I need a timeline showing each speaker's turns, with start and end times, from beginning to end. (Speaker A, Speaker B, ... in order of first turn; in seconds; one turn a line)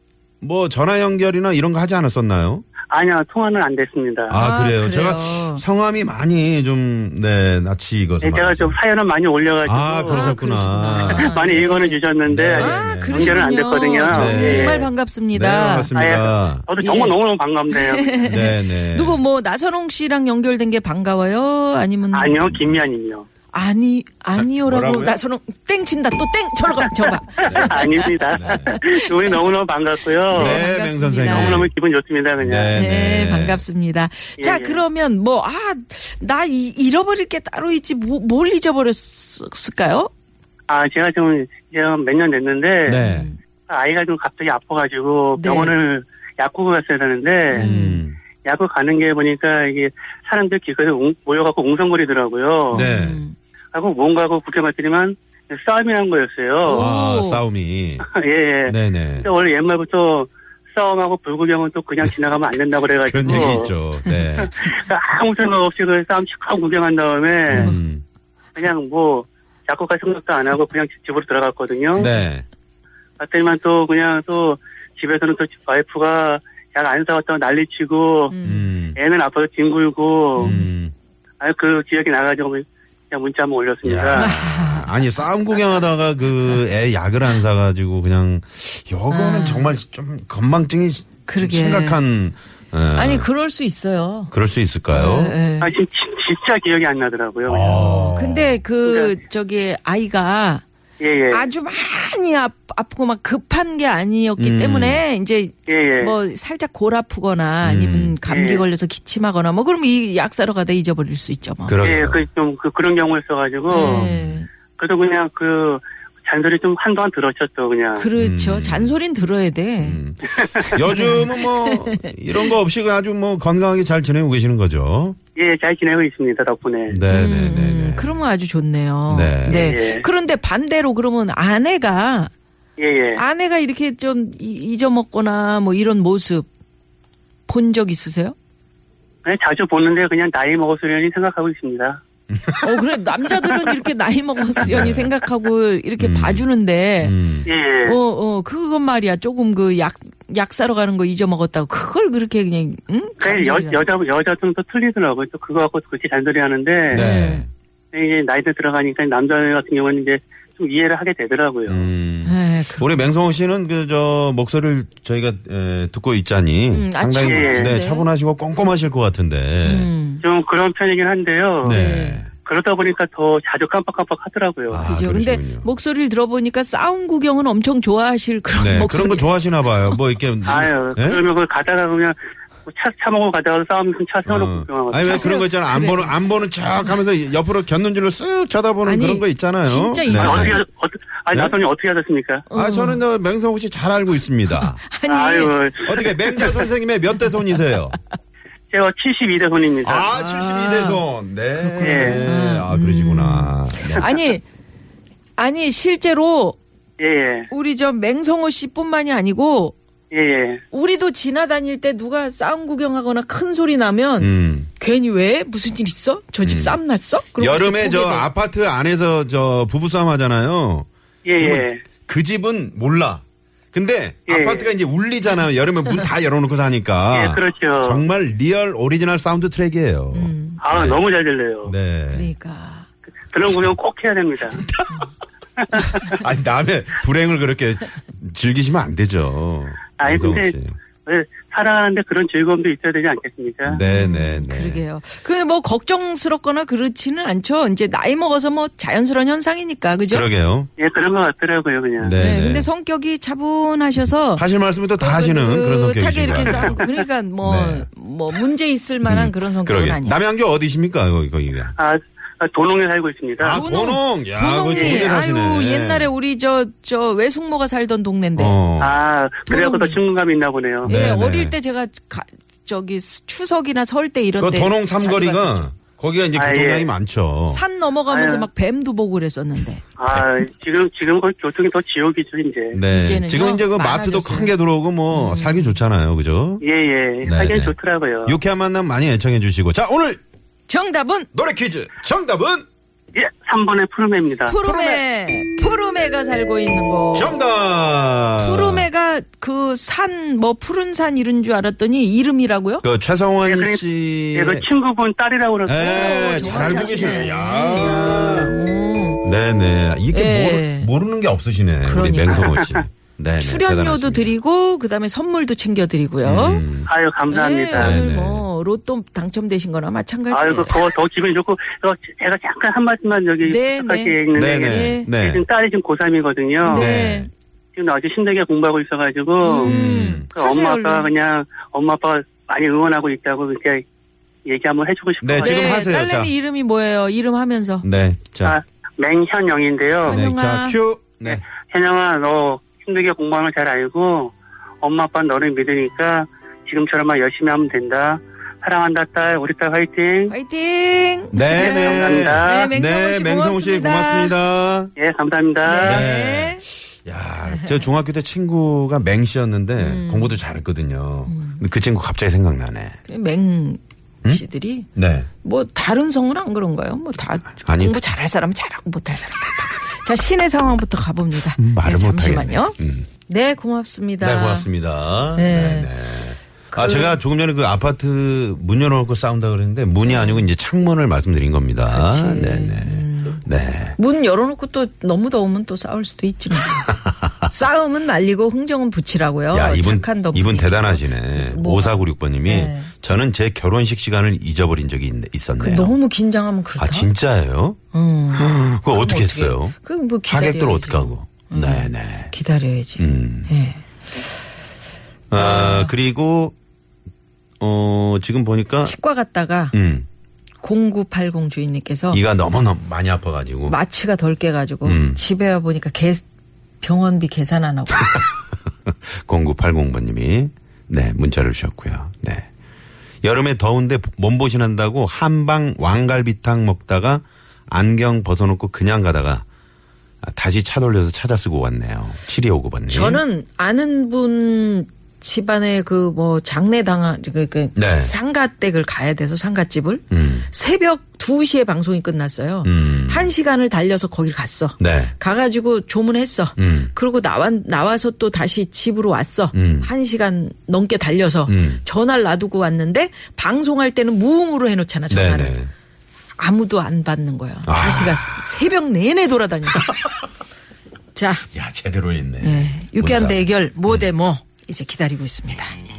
Speaker A: 0.4-2.6
Speaker B: 2.9-4.4
Speaker A: 4.3-8.8
Speaker C: 4.3-5.6
Speaker B: 8.2-10.3
Speaker A: 9.6-11.3
Speaker C: 10.1-12.0
Speaker B: 11.1-14.8
Speaker A: 12.3-13.5
Speaker C: 12.6-15.9
Speaker A: 14.1-16.7
Speaker B: 15.9-18.3
Speaker C: 16.8-17.2
Speaker C: 17.7-22.4
Speaker A: 18.2-19.2
Speaker B: 22.1-23.3
Speaker A: 22.4-22.7
Speaker C: 23.5-28.9
Speaker A: 24.4-25.2
Speaker A: 27.4-28.8
Speaker B: 27.4-30.7
Speaker C: 30.3-31.7
Speaker A: 30.3-31.7
Speaker B: 31.2-32.7
Speaker A: 32.4-33.6
Speaker C: 32.7-40.1
Speaker B: 34.4-34.8
Speaker B: 40.7-43.0
Speaker A: 42.9-43.3
Speaker C: 43.0-43.4
Speaker B: 43.7-47.7
Speaker C: 45.4-45.8
Speaker A: 47.5-48.2
Speaker C: 47.5-48.0
Speaker B: 48.4-52.9
Speaker A: 52.7-53.2
Speaker C: 52.7-53.4
Speaker B: 53.7-56.9
Speaker C: 56.6-57.4
Speaker A: 56.7-58.1
Speaker B: 58.1-63.7
Speaker A: 58.7-59.3
Speaker A: 63.0-64.5
Speaker C: 63.2-64.3
Speaker B: 64.4-67.8
Speaker A: 67.5-68.0
Speaker C: 67.5-67.8
Speaker B: 68.5-72.1
Speaker A: 72.0-72.5
Speaker B: 73.2-78.3
Speaker C: 78.3-78.7
Speaker A: 78.4-79.0
Speaker B: 79.0-80.6
Speaker C: 80.4-80.7
Speaker A: 80.4-80.9
Speaker B: 81.4-84.3
Speaker A: 83.8-93.3
Speaker C: 84.2-84.9
Speaker C: 89.1-89.8
Speaker C: 91.3-92.0
Speaker C: 92.9-94.3
Speaker A: 94.3-95.4
Speaker C: 94.9-95.7
Speaker B: 95.6-97.6
Speaker A: 97.5-98.6
Speaker C: 97.5-100.6
Speaker B: 98.8-99.2
Speaker B: 101.0-101.5
Speaker C: 101.3-111.8
Speaker A: 104.4-105.0
Speaker B: 105.7-106.1
Speaker A: 107.6-108.2
Speaker B: 108.3-108.7
Speaker A: 111.7-112.2
Speaker B: 111.8-114.1
Speaker C: 113.7-114.5
Speaker A: 113.8-114.4
Speaker B: 114.8-118.1
Speaker C: 118.0-120.0
Speaker A: 118.2-119.0
Speaker A: 119.8-125.2
Speaker B: 120.4-120.6
Speaker C: 120.9-122.5
Speaker B: 125.4-127.0
Speaker A: 126.9-128.2
Speaker C: 127.1-132.3
Speaker A: 129.1-129.8
Speaker B: 129.5-130.1
Speaker B: 132.8-133.2
Speaker C: 133.2-136.5
Speaker C: 137.5-138.4
Speaker B: 139.2-142.0
Speaker A: 142.3-142.8
Speaker C: 142.6-147.2
Speaker A: 144.6-145.1
Speaker A: 146.0-146.5
Speaker A: 147.0-147.5
Speaker B: 147.5-148.0
Speaker C: 147.8-153.9
Speaker B: 153.2-157.1
Speaker C: 156.9-157.5
Speaker A: 156.9-157.5
Speaker B: 157.9-161.9
Speaker A: 161.7-169.9
Speaker C: 162.2-162.9
Speaker C: 166.7-168.1
Speaker B: 167.2-167.7
Speaker C: 169.6-170.2
Speaker B: 170.2-171.8
Speaker A: 171.6-172.3
Speaker C: 171.7-172.2
Speaker B: 172.4-174.8
Speaker A: 174.7-175.7
Speaker C: 174.8-180.0
Speaker A: 178.5-181.2
Speaker B: 180.4-185.3
Speaker A: 184.2-190.6
Speaker C: 185.0-186.2
Speaker C: 188.8-190.6
Speaker B: 190.1-192.5
Speaker C: 192.5-193.0
Speaker A: 192.5-194.8
Speaker C: 194.5-195.5
Speaker B: 195.1-196.6
Speaker A: 195.9-198.0
Speaker B: 198.7-200.1
Speaker A: 199.8-204.1
Speaker C: 200.1-201.0
Speaker C: 201.5-204.4
Speaker B: 201.8-202.3
Speaker C: 205.4-206.6
Speaker B: 207.0-207.5
Speaker C: 207.5-209.8
Speaker B: 210.1-210.6
Speaker C: 210.7-218.3
Speaker A: 214.2-214.7
Speaker A: 216.4-216.8
Speaker A: 217.4-231.0
Speaker B: 221.2-221.8
Speaker B: 224.3-224.7
Speaker B: 227.1-228.1
Speaker C: 230.1-230.6
Speaker B: 230.6-231.7
Speaker A: 231.6-232.3
Speaker C: 232.1-232.9
Speaker B: 233.3-234.6
Speaker A: 234.6-235.0
Speaker B: 235.6-236.1
Speaker A: 235.9-240.8
Speaker B: 240.0-243.8
Speaker A: 243.7-244.8
Speaker C: 243.8-250.3
Speaker A: 250.1-250.7
Speaker B: 250.8-252.2
Speaker A: 252.0-252.7
Speaker C: 252.2-260.2
Speaker A: 254.3-256.8
Speaker B: 256.4-256.9
Speaker A: 257.4-257.9
Speaker A: 259.1-261.8
Speaker B: 261.8-263.6
Speaker A: 263.4-266.1
Speaker C: 263.5-268.6
Speaker B: 264.7-265.1
Speaker A: 268.4-269.0
Speaker B: 268.8-270.9
Speaker C: 269.5-270.0
Speaker A: 270.9-271.6
Speaker C: 270.9-275.7
Speaker A: 274.4-277.6
Speaker B: 276.4-276.9
Speaker C: 277.5-279.9
Speaker B: 278.1-278.5
Speaker B: 280.0-282.8
Speaker A: 282.7-286.6
Speaker C: 282.9-284.6
Speaker C: 285.1-285.8
Speaker B: 286.6-288.4
Speaker A: 287.2-290.2
Speaker C: 290.7-291.3
Speaker A: 291.3-292.7
Speaker B: 293.1-294.6
Speaker C: 294.5-297.4
Speaker A: 294.6-295.0
Speaker A: 297.1-298.9
Speaker C: 298.4-302.9
Speaker A: 302.8-304.7
Speaker B: 303.4-303.8
Speaker B: 304.3-307.3
Speaker A: 305.7-308.5
Speaker C: 305.8-309.2
Speaker A: 309.2-314.3
Speaker C: 310.1-310.9
Speaker C: 311.8-312.6
Speaker C: 313.4-316.6
Speaker A: 316.2-316.9
Speaker B: 316.9-318.0
Speaker C: 317.3-320.8
Speaker A: 317.7-318.4
Speaker B: 320.3-326.9
Speaker C: 323.4-325.1
Speaker A: 324.3-325.4
Speaker A: 326.6-327.3
Speaker C: 326.7-327.3
Speaker B: 327.8-333.8
Speaker C: 329.4-331.1
Speaker A: 329.6-330.3
Speaker B: 334.5-335.9
Speaker A: 335.2-336.3
Speaker C: 335.4-337.9
Speaker A: 337.8-338.6
Speaker B: 338.4-340.2
Speaker C: 340.0-340.8
Speaker A: 340.1-341.4
Speaker B: 341.2-350.3
Speaker C: 350.3-354.4
Speaker A: 351.3-354.9
Speaker B: 351.6-352.7
Speaker B: 355.0-356.1
Speaker C: 355.6-356.6
Speaker A: 355.8-363.0
Speaker C: 357.5-357.9
Speaker C: 359.8-360.4
Speaker C: 361.3-361.6
Speaker C: 363.1-364.9
Speaker A: 365.0-365.3
Speaker C: 365.4-374.7
Speaker A: 367.6-368.0
Speaker A: 371.5-373.1
Speaker A: 374.2-384.0
Speaker C: 375.4-375.9
Speaker C: 376.7-377.2
Speaker C: 380.1-380.5
Speaker C: 381.9-383.4
Speaker C: 384.0-392.9
Speaker A: 389.5-395.9
Speaker C: 395.6-397.1
Speaker A: 396.8-397.8
Speaker C: 397.9-403.9
Speaker A: 398.3-399.7
Speaker A: 400.3-402.3
Speaker A: 403.0-403.5
Speaker A: 405.3-406.6
Speaker C: 405.3-405.9
Speaker A: 407.6-409.0
Speaker C: 408.8-409.8
Speaker A: 409.7-410.1
Speaker C: 410.6-412.2
Speaker A: 412.1-413.8
Speaker C: 413.7-416.2
Speaker A: 414.8-415.2
Speaker C: 416.8-418.2
Speaker A: 418.9-422.5
Speaker A: 423.2-429.4
Speaker A: 430.2-433.2
Speaker C: 432.9-455.6
Speaker A: 437.8-438.1
Speaker A: 440.1-440.5
Speaker A: 442.6-443.3
Speaker A: 444.8-445.1
Speaker A: 446.6-446.9
Speaker A: 449.5-449.9
Speaker A: 451.5-451.8
Speaker A: 455.1-455.7
Speaker C: 456.4-460.1
Speaker A: 457.6-458.5
Speaker C: 461.1-461.5
Speaker A: 461.5-464.1
Speaker C: 462.4-465.8